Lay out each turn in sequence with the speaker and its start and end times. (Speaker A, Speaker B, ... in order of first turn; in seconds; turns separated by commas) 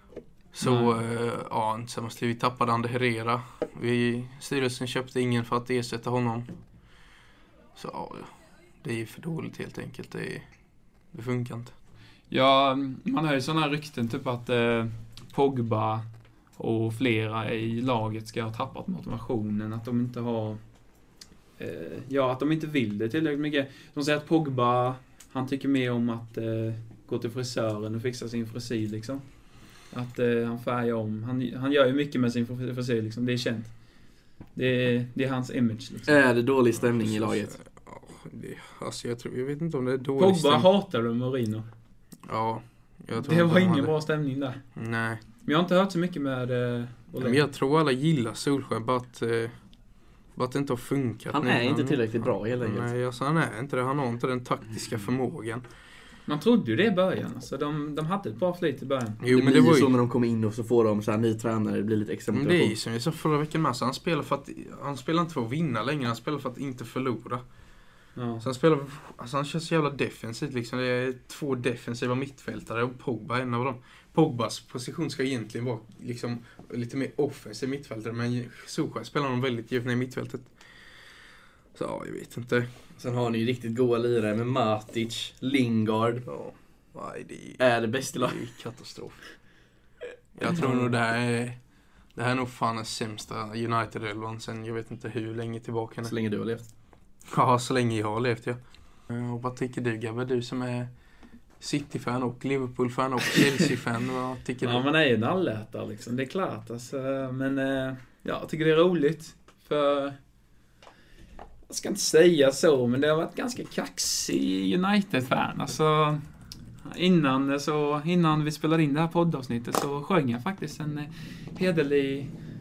Speaker A: 0.5-6.5, Speaker B: 0.6-0.9, Speaker A: 7.8-10.5, Speaker A: 11.1-11.7, Speaker B: 12.3-16.1, Speaker B: 16.6-20.6, Speaker B: 21.6-29.2, Speaker B: 29.9-33.7, Speaker B: 34.5-36.2, Speaker C: 36.1-37.5, Speaker A: 36.8-40.7, Speaker B: 40.2-41.7, Speaker A: 42.3-43.9, Speaker B: 43.2-44.6, Speaker A: 44.8-45.2, Speaker B: 45.5-47.4, Speaker A: 47.2-49.5, Speaker A: 50.4-55.6, Speaker C: 51.3-52.9, Speaker B: 56.3-59.2, Speaker A: 59.2-60.0, Speaker C: 59.3-62.7, Speaker A: 62.3-67.4, Speaker B: 68.2-68.4, Speaker A: 68.4-80.5, Speaker A: 81.8-82.7, Speaker C: 83.0-86.3, Speaker A: 86.2-87.6, Speaker C: 87.6-88.4, Speaker A: 88.2-89.2, Speaker A: 90.4-91.6, Speaker A: 92.2-96.1, Speaker C: 96.0-96.7, Speaker A: 97.3-100.9, Speaker A: 101.6-104.8, Speaker B: 103.4-103.6, Speaker B: 104.6-110.2, Speaker B: 111.7-116.2, Speaker B: 116.8-122.3